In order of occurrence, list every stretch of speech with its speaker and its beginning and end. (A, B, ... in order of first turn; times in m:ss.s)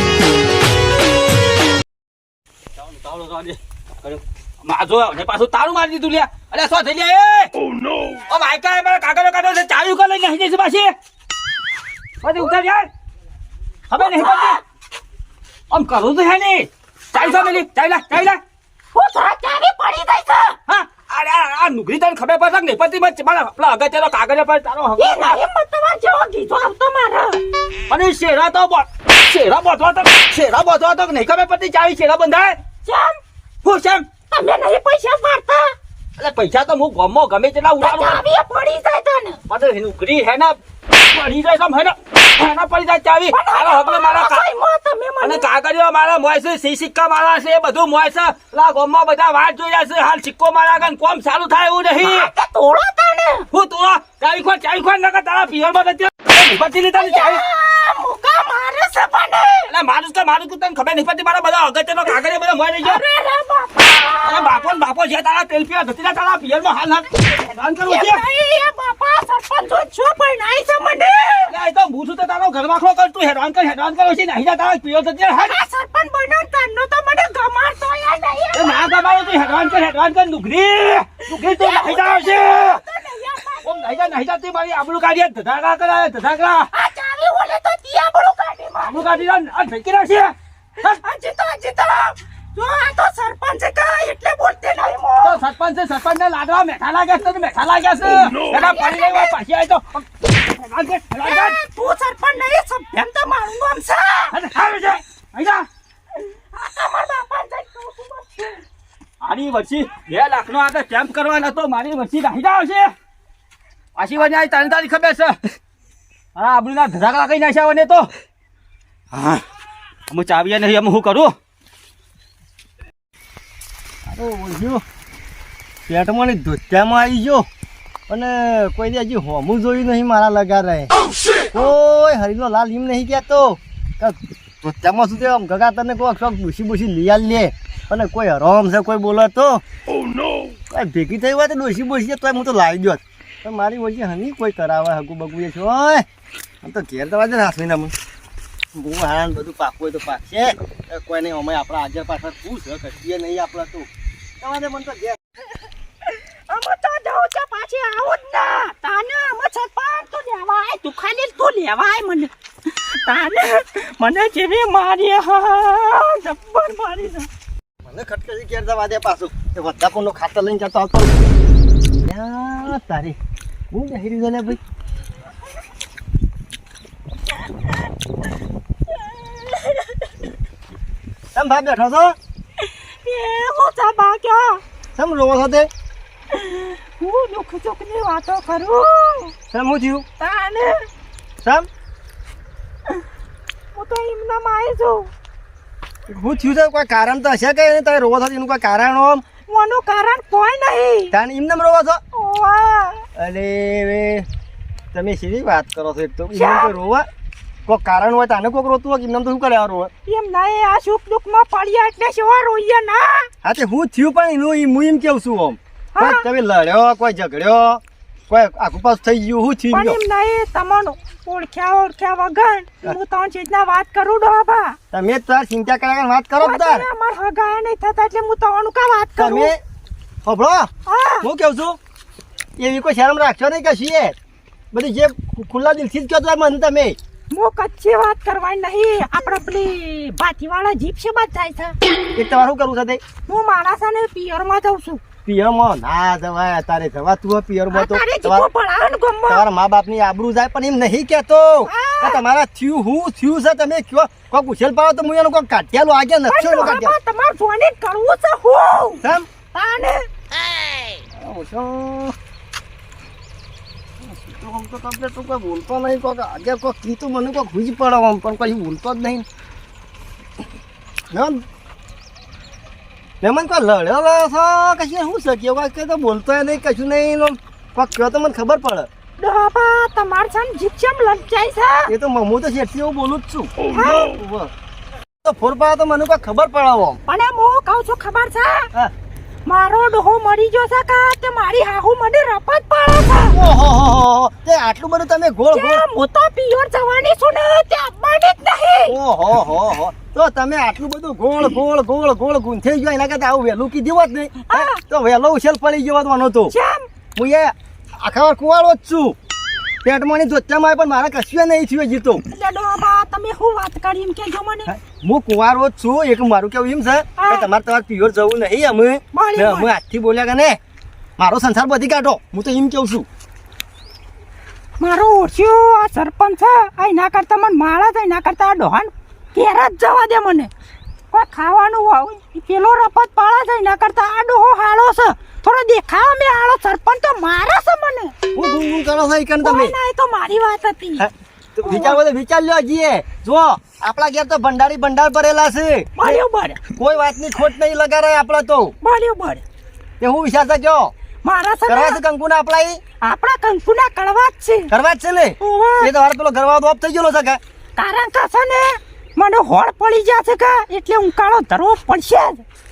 0:02.8-0:07.5 A
0:08.3-0:10.9 A
0:12.2-0:12.9 A
0:13.9-0:14.6 A
0:14.0-0:14.5 B
0:15.7-0:18.4 A
0:17.1-0:17.6 B
0:18.9-0:20.6 B
0:20.7-0:25.4 A
0:25.0-0:27.4 B
0:27.9-0:32.6 A
0:32.8-0:33.2 B
0:33.6-0:34.0 A
0:34.3-0:35.7 B
0:36.2-0:38.2 A
0:37.8-0:39.4 B
0:39.5-0:44.4 A
0:43.3-0:45.4 B
0:45.2-0:52.3 A
0:52.0-0:53.5 B
0:53.5-0:57.4 A
0:56.9-0:59.7 B
0:59.7-1:03.0 A
1:02.8-1:04.7 B
1:04.2-1:08.2 A
1:07.8-1:11.6 B
1:11.5-1:15.6 A
1:15.4-1:19.3 B
1:18.5-1:22.8 A
1:21.3-1:24.0 B
1:23.6-1:26.7 A
1:26.7-1:29.2 B
1:28.8-1:31.0 A
1:30.8-1:35.4 B
1:35.2-1:41.6 A
1:38.5-1:39.3 B
1:41.2-1:44.4 B
1:44.3-1:45.6 A
1:46.2-1:48.6 B
1:49.2-1:52.9 A
1:54.0-1:55.4 A
1:56.4-1:58.1 A
1:59.1-1:59.4 A
2:00.1-2:01.3 A
2:04.0-2:04.8 C
2:05.9-2:07.5 C
2:08.1-2:10.9 C
2:11.5-2:19.6 C
2:20.7-2:26.0 C
2:26.6-2:27.9 C
2:28.7-2:33.9 C
2:34.4-2:35.2 C
2:36.5-2:47.3 B
2:47.8-2:51.3 C
2:52.0-2:53.2 C
2:53.7-2:54.6 C
2:59.0-3:00.0 B
3:01.3-3:02.2 C
3:02.6-3:04.6 B
3:05.0-3:05.7 C
3:06.3-3:09.3 B
3:09.5-3:10.0 C
3:10.2-3:10.8 B
3:11.4-3:11.7 C
3:13.7-3:15.1 B
3:16.1-3:19.2 C
3:19.5-3:21.1 B
3:21.1-3:22.0 C
3:22.1-3:23.0 B
3:23.1-3:24.3 C
3:24.9-3:27.1 C
3:26.3-3:26.7 B
3:27.6-3:29.9 C
3:30.0-3:33.3 B
3:33.4-3:40.0 C
3:35.9-3:36.2 B
3:39.7-3:44.8 B
3:44.9-3:46.9 C
3:46.4-3:49.5 B
3:49.2-3:49.6 C
3:50.2-3:50.7 C
3:50.8-3:51.3 B
3:51.2-3:51.8 C
3:52.6-3:54.2 C
3:54.7-3:57.0 C
3:57.3-4:01.8 B
4:02.1-4:03.0 C
4:03.2-4:05.0 B
4:05.2-4:08.5 C
4:07.7-4:09.4 B
4:09.3-4:16.9 C
4:11.6-4:12.2 B
4:16.3-4:19.0 B
4:19.0-4:19.3 C
4:19.5-4:20.0 B
4:21.2-4:22.2 C
4:24.0-4:29.2 C
4:31.1-4:31.4 C
4:33.2-4:38.9 C
4:39.2-4:41.9 B
4:41.9-4:44.5 C
4:43.7-4:44.1 B
4:45.2-4:47.0 C
4:47.0-4:48.7 B
4:49.4-4:53.4 B
4:53.3-4:55.8 C
4:55.5-4:59.0 B
4:58.9-5:06.5 C
5:04.4-5:04.8 B
5:06.5-5:06.8 B
5:07.2-5:09.2 C
5:09.8-5:12.2 C
5:12.3-5:14.7 B
5:14.7-5:20.6 C
5:17.2-5:17.5 B
5:19.1-5:19.7 B
5:21.2-5:23.0 C
5:24.8-5:30.5 B
5:31.1-5:38.1 B
5:38.3-5:39.7 C
5:39.4-5:41.0 B
5:41.0-5:46.2 C
5:41.6-5:42.0 B
5:46.0-5:46.6 B
5:46.8-5:48.7 C
5:48.8-5:49.4 B
5:50.0-5:50.9 C
5:51.2-5:52.0 B
5:51.7-5:52.8 C
5:53.0-5:54.7 B
5:54.7-5:57.4 C
5:55.4-5:55.9 B
5:57.8-6:02.4 B